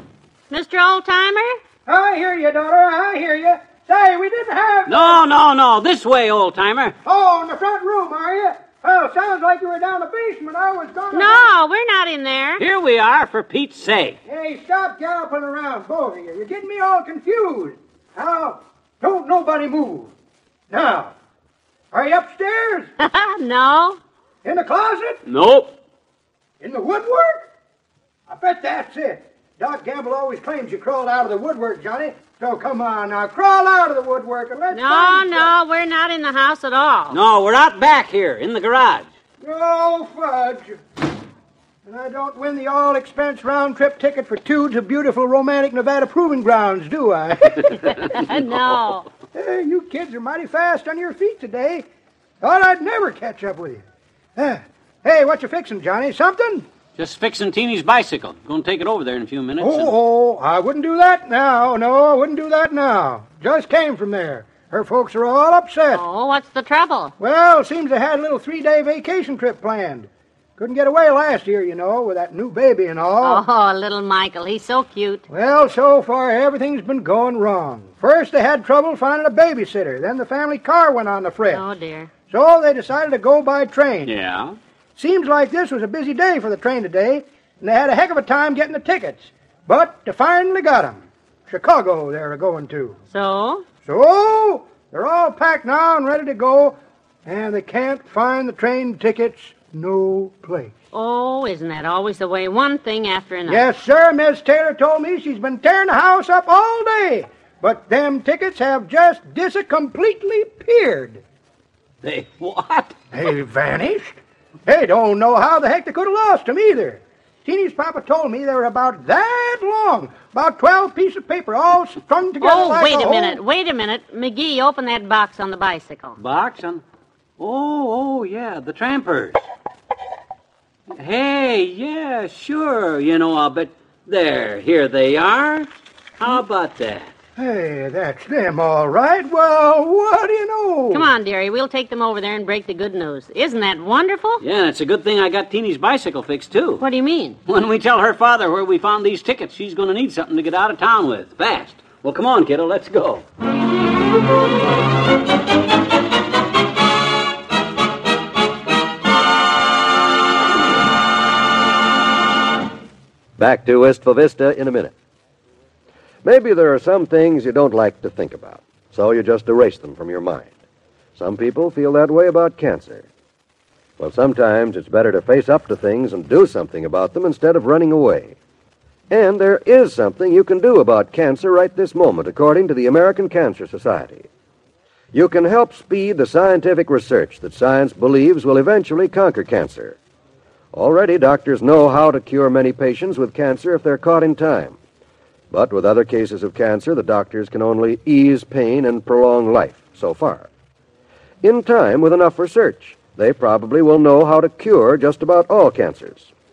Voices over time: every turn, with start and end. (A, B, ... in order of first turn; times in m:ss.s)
0:00.5-0:01.5 A
0:01.8-0:05.2 B
0:04.9-0:06.9 C
0:07.0-0:11.5 B
0:11.1-0:12.6 A
0:12.6-0:14.2 C
0:14.3-0:20.1 B
0:20.7-0:21.1 B
0:21.9-0:22.9 B
0:23.0-0:24.0 A
0:24.4-0:25.2 B
0:25.2-0:25.7 C
0:26.6-0:27.5 B
0:28.3-0:35.5 B
0:34.7-0:37.2 A
0:37.1-0:39.0 C
0:39.4-0:40.8 B
0:41.8-0:47.7 B
0:47.6-0:48.9 C
0:47.8-0:49.0 A
0:49.3-0:51.8 B
0:52.4-0:53.8 B
0:54.4-0:56.6 B
0:57.0-0:59.9 C
0:59.6-1:06.0 B
1:05.9-1:07.1 A
1:07.2-1:13.4 B
1:13.2-1:15.2 A
1:15.3-1:21.6 B
1:21.5-1:22.1 A
1:22.3-1:24.1 B
1:24.0-1:24.6 C
1:25.0-1:33.0 B
1:33.1-1:33.6 A
1:33.8-1:40.7 B
1:40.9-1:43.6 A
1:43.5-1:51.2 B
1:52.0-1:52.9 C
1:53.1-2:03.4 B
2:02.4-2:06.2 A
2:06.2-2:06.8 C
2:07.4-2:09.4 C
2:10.9-2:17.1 C
2:17.4-2:21.1 B
2:20.9-2:24.4 A
2:24.4-2:26.8 C
2:26.8-2:27.4 A
2:27.4-2:33.2 C
2:43.4-2:44.9 D
2:46.2-2:50.6 D
2:51.2-2:53.1 D
2:54.0-2:58.4 D
2:59.1-3:04.3 D
3:05.1-3:10.0 D
3:10.7-3:14.8 D
3:15.5-3:20.5 D
3:21.4-3:26.3 D